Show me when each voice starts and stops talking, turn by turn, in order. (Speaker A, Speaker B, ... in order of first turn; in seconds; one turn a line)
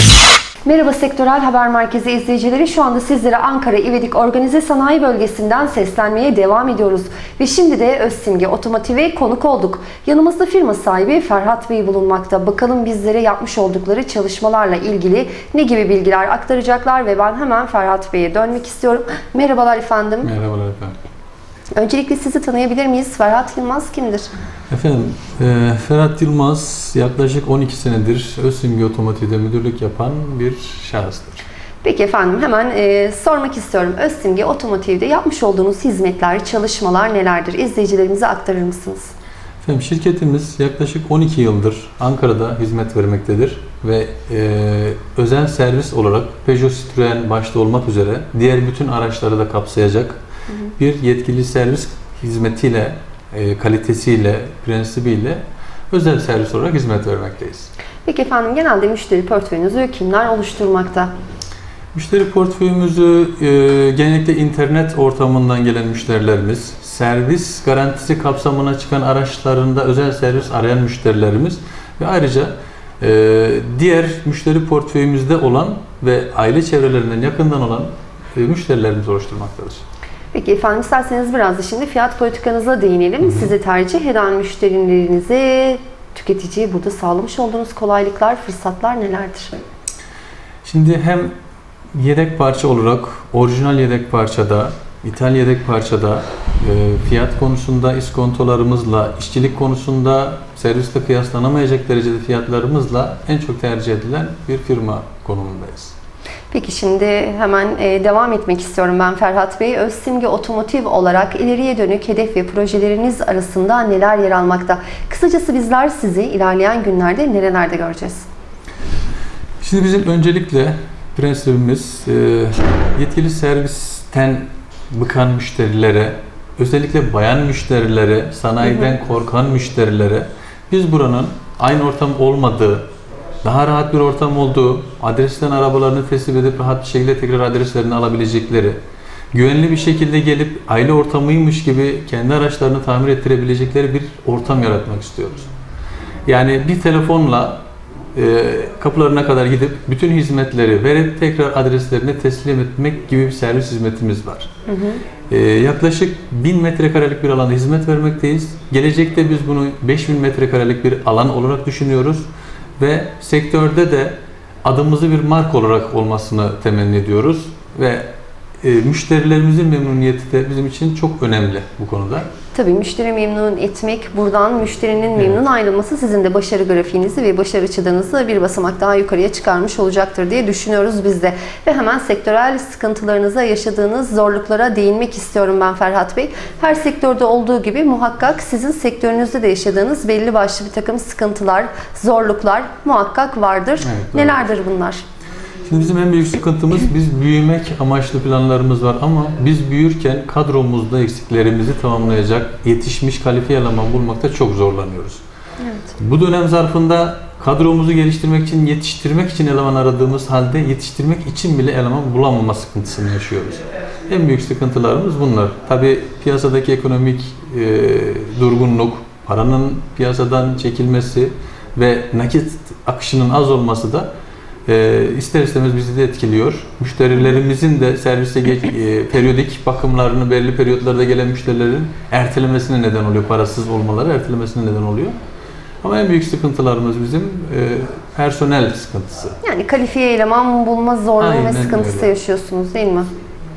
Speaker A: 0.7-20.3
Speaker B: 20.2-21.0
Speaker A: 21.8-24.3
Speaker B: 24.7-31.4
Speaker A: 31.8-39.1
Speaker B: 39.6-50.2
Speaker B: 50.8-57.7
Speaker A: 58.1-61.1
Speaker B: 61.9-79.8
Speaker A: 80.3-89.6
Speaker B: 83.2-83.5
Speaker B: 90.7-91.3
Speaker B: 91.9-106.0
Speaker A: 106.5-118.3
Speaker B: 119.6-132.8
Speaker A: 128.6-128.9
Speaker B: 133.4-138.8
Speaker B: 139.3-145.5
Speaker B: 146.3-147.6
Speaker B: 148.2-154.5
Speaker A: 154.7-155.0
Speaker B: 155.3-162.3
Speaker B: 162.8-168.1
Speaker B: 168.6-172.3
Speaker A: 172.5-195.0
Speaker B: 193.8-194.4
Speaker B: 195.7-205.2
Speaker B: 206.0-224.1
Speaker B: 224.7-235.2
Speaker B: 235.8-239.4
Speaker A: 239.4-243.1
Speaker B: 241.2-242.1